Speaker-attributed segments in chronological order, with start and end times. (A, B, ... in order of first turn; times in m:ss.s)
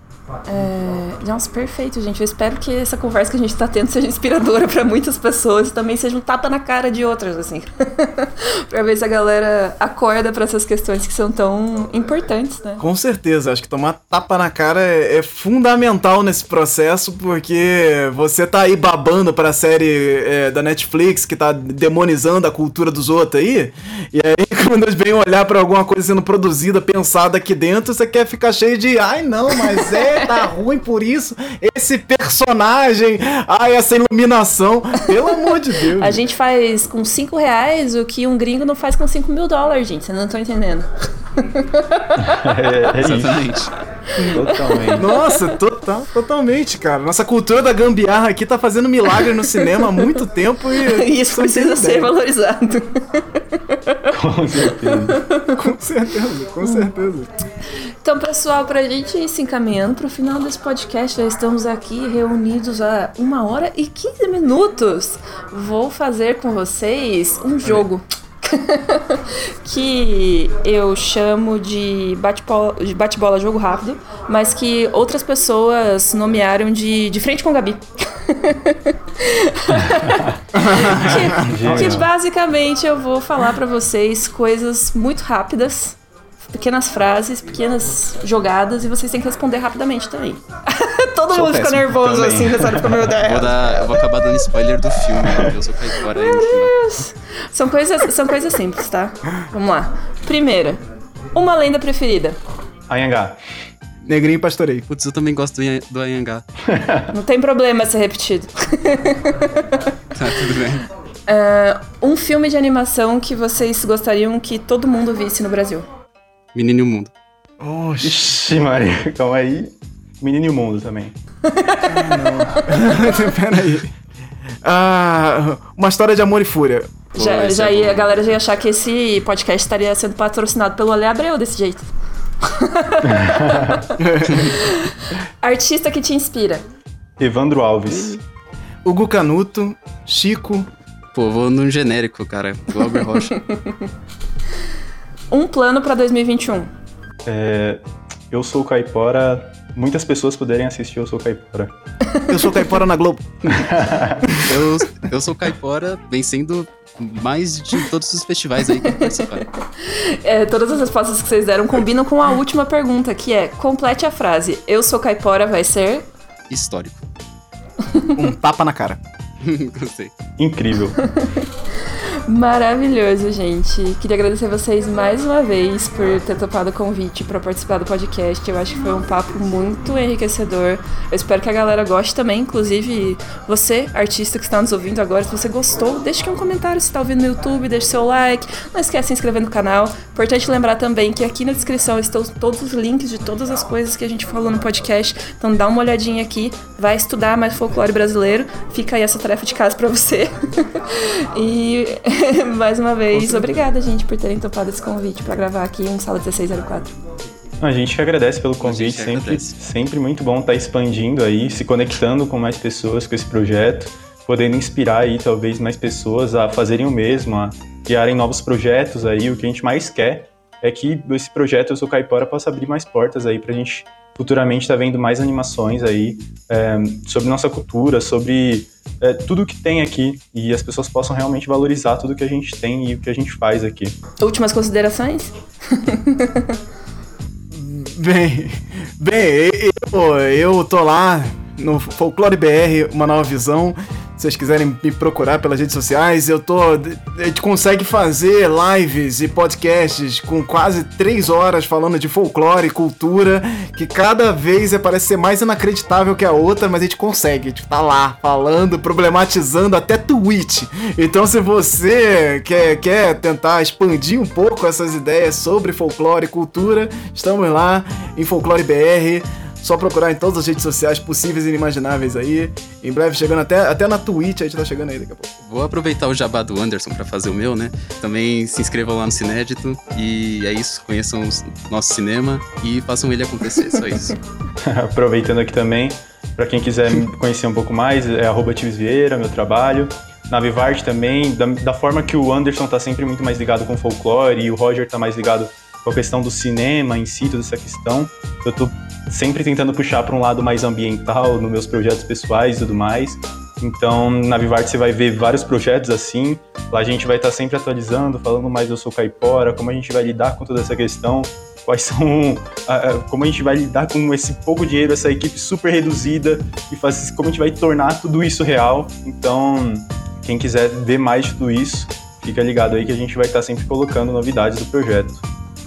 0:00.4-0:12.8 A
0:12.8-0:36.2 B
0:29.9-0:30.3 A
0:36.0-0:42.6 A
0:42.2-0:43.5 C
0:43.0-0:43.7 D
0:44.2-0:45.5 A
0:44.2-0:52.1 B
0:44.3-0:45.0 C
0:49.2-0:50.1 A
0:50.8-0:55.7 A
0:54.1-0:55.2 C
0:55.6-0:57.3 B
0:56.6-0:56.9 A
0:58.0-1:34.0 A
1:19.8-1:20.4 C
1:20.5-1:21.9 B
1:20.9-1:22.1 C
1:31.3-1:31.8 D
1:31.4-1:33.1 C
1:33.2-1:36.9 D
1:36.1-1:40.8 A
1:41.3-1:42.4 A
1:42.9-1:43.4 C
1:44.0-1:44.8 B
1:44.9-1:46.4 D
1:46.6-1:47.1 C
1:47.1-1:49.9 A
1:50.1-1:50.9 D
1:51.3-1:55.9 A
1:56.5-1:57.1 D
1:57.6-1:58.4 B
1:58.0-2:01.1 C
2:01.4-2:03.1 A
2:01.9-2:03.9 B
2:04.6-2:06.9 B
2:07.1-2:11.9 A
2:07.2-2:08.2 D
2:12.4-2:16.6 A
2:13.0-2:13.8 C
2:14.0-2:14.5 B
2:14.2-2:14.5 D
2:17.2-2:18.2 C
2:17.9-2:18.2 D
2:18.8-2:20.7 B
2:21.1-2:23.4 D
2:23.2-2:23.9 A
2:25.3-2:26.7 A
2:27.2-2:31.7 C
2:32.0-2:32.7 A
2:32.3-2:33.8 B
2:33.5-2:34.4 C
2:34.4-2:39.5 D
2:38.9-2:46.1 A
2:46.5-2:47.0 D
2:47.9-2:48.2 A
2:48.1-2:49.0 B
2:49.4-2:50.1 D
2:50.4-2:51.0 C
2:51.0-2:51.4 A
2:52.3-3:27.0 A
3:27.6-3:53.9 C
3:28.6-3:29.6 D
3:54.2-3:56.6 A
3:57.5-4:35.3 B
4:35.4-4:44.2 D
4:44.6-5:25.2 C